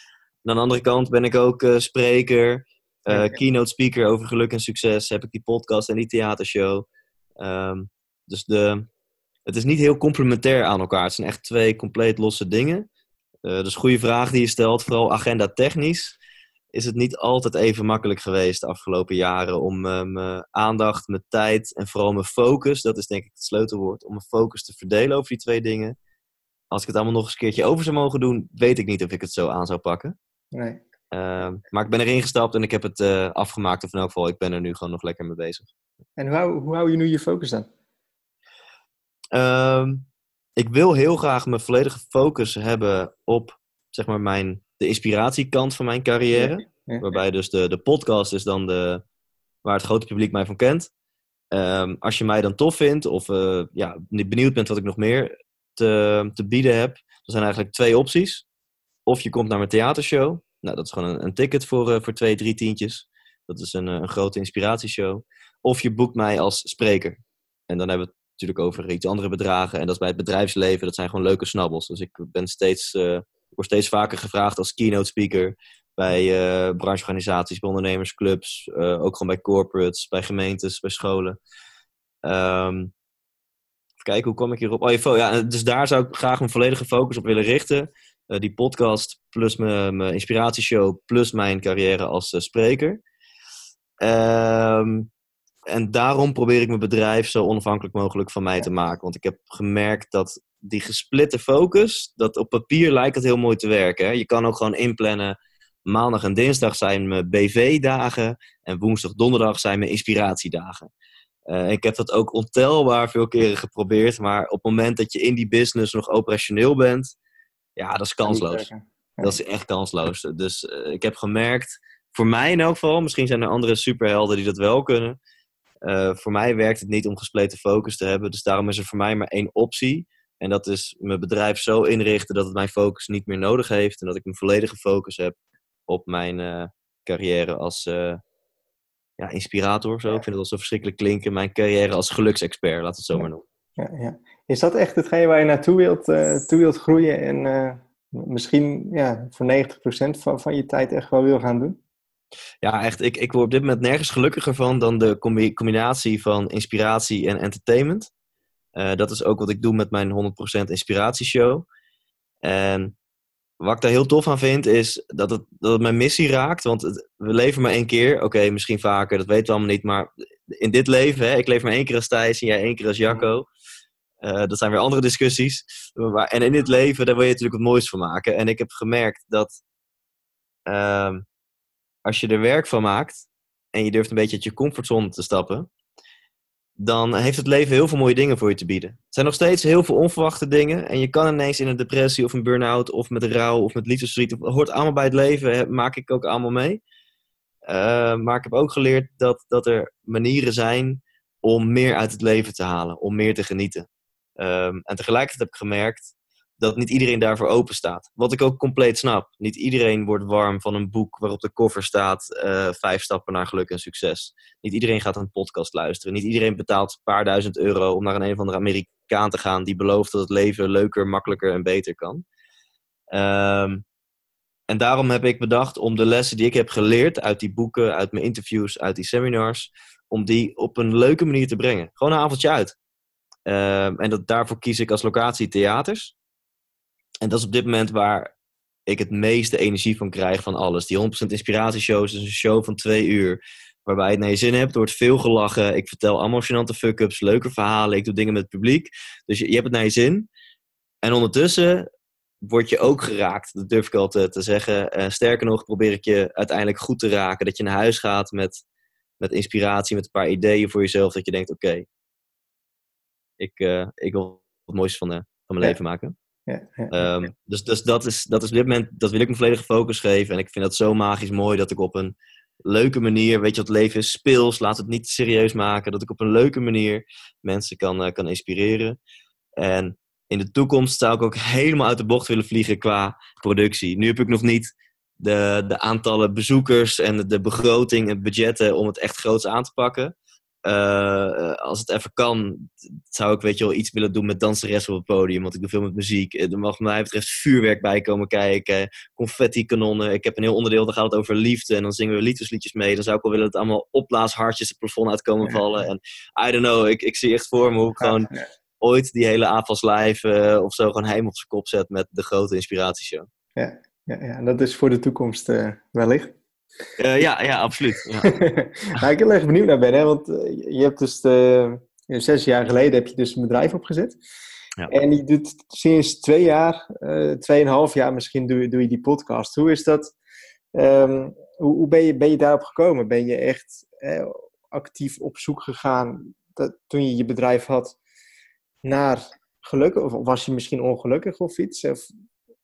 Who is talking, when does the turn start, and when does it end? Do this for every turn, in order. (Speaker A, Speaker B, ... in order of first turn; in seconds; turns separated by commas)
Speaker A: 0.4-6.9, Speaker B: 3.1-3.4, Speaker A: 7.4-8.9, Speaker A: 9.4-12.9, Speaker A: 13.4-16.2, Speaker A: 16.7-25.9, Speaker A: 26.7-30.1, Speaker B: 30.5-30.8, Speaker A: 31.1-35.7, Speaker B: 36.2-37.7, Speaker A: 39.3-49.0, Speaker B: 46.3-47.0, Speaker A: 49.6-50.9, Speaker A: 51.5-58.5, Speaker A: 59.1-81.4, Speaker A: 82.2-82.9, Speaker A: 84.0-93.0, Speaker A: 94.0-95.1, Speaker A: 95.7-105.3, Speaker A: 105.9-110.9, Speaker A: 111.5-117.2, Speaker A: 117.8-118.7, Speaker B: 118.2-119.4, Speaker A: 119.2-125.2, Speaker A: 125.8-135.3, Speaker A: 135.9-138.2, Speaker A: 139.2-143.4, Speaker B: 143.1-151.8, Speaker A: 152.6-158.1, Speaker A: 158.8-161.7, Speaker A: 162.4-162.9, Speaker A: 163.6-173.5, Speaker A: 174.2-179.6, Speaker A: 180.7-181.2, Speaker A: 182.1-185.7, Speaker A: 186.8-196.8, Speaker A: 197.7-203.9, Speaker A: 204.4-222.2, Speaker A: 223.1-223.8, Speaker A: 224.7-232.8, Speaker A: 233.5-236.1, Speaker A: 237.2-238.3, Speaker A: 238.8-250.3, Speaker A: 251.0-251.9, Speaker A: 252.4-258.6, Speaker A: 259.2-261.9, Speaker A: 263.4-266.1, Speaker B: 266.5-267.3, Speaker A: 266.9-279.0, Speaker A: 279.6-308.3, Speaker B: 308.0-308.4, Speaker A: 308.8-313.3, Speaker B: 313.6-316.3, Speaker A: 317.0-318.3, Speaker B: 318.2-324.2, Speaker B: 324.9-330.1, Speaker B: 330.7-338.0, Speaker B: 338.8-342.1